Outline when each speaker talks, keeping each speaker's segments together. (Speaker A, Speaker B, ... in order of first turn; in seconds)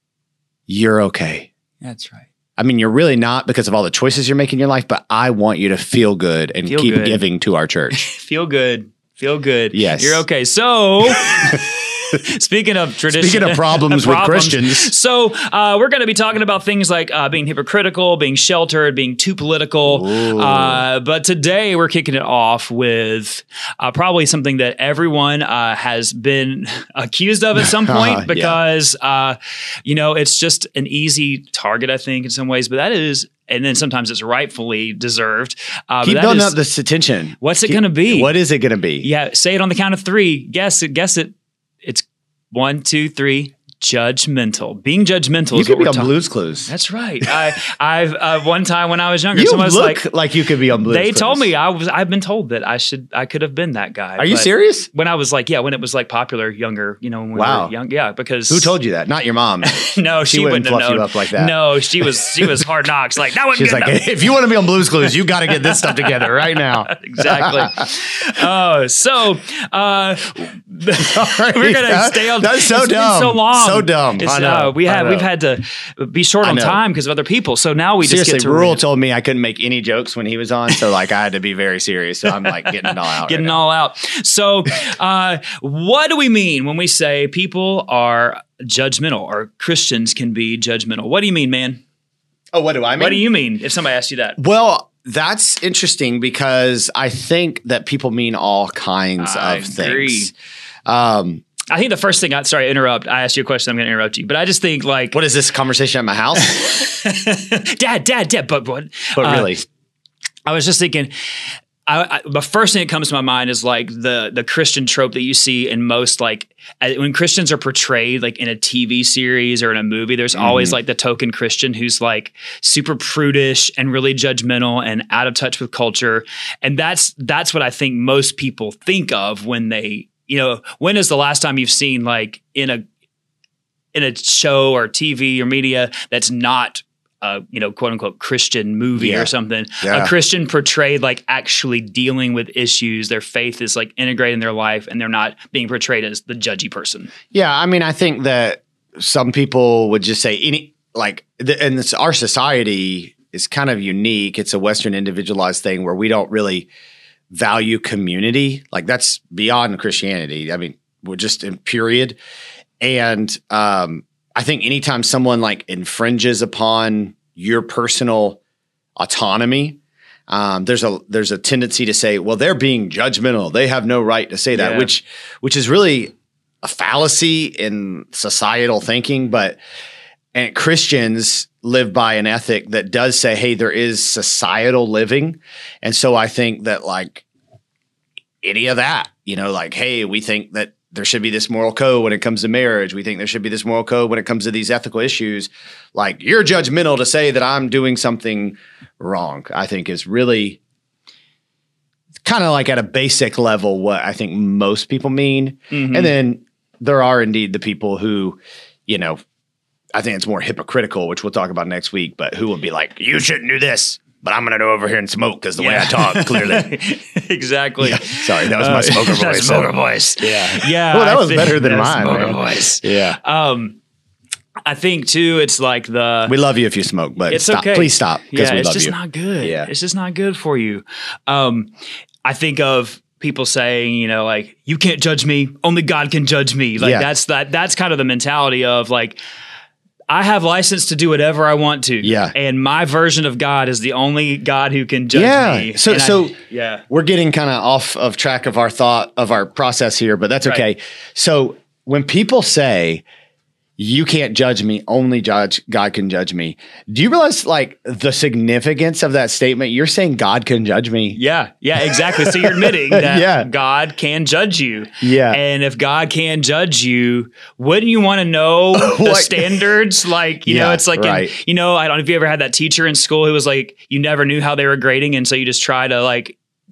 Speaker A: 0.7-1.5, 2.6-8.1, 9.7-10.2, 11.2-11.6, 13.1-14.9, 19.9-20.8, 27.6-28.6, 36.0-39.1, 45.5-46.7, 49.3-51.5, 54.2-54.9, 57.3-57.7, 58.5-62.7, 63.5-67.9, 71.0-75.3, 76.4-76.8, 78.0-83.6, 92.5-93.2, 94.4-100.3, 100.8-101.4, 105.1-106.5, 109.2-109.6, 120.3-120.8, 138.9-139.3, 139.8-140.1, 147.3-156.7, 157.3-162.2, 162.8-168.4, 169.0-179.6, 180.3-187.2, 188.4-200.6, 202.2-209.2, 209.9-216.7, 217.8-223.2, 226.3-229.7, 236.8-237.1, 242.0-242.3, 245.1-246.4, 246.9-253.0, 253.8-261.2, 261.8-263.5, 265.0-265.4, 268.7-269.6, 270.4-271.3
Speaker B: 1.8-2.3, 6.7-7.2, 7.9-36.6, 37.4-38.3, 39.0-46.1, 46.7-50.0, 50.8-58.7, 59.6-64.2, 65.5-78.8, 82.3-91.8, 93.0-94.4, 99.2-100.3, 101.7-105.2, 106.4-109.6, 110.5-111.1, 111.8-132.8, 133.9-147.1, 174.5-174.9, 205.7-206.1, 215.6-223.8, 224.6-226.3, 227.3-231.7, 232.2-239.2, 240.1-246.8, 261.1-276.4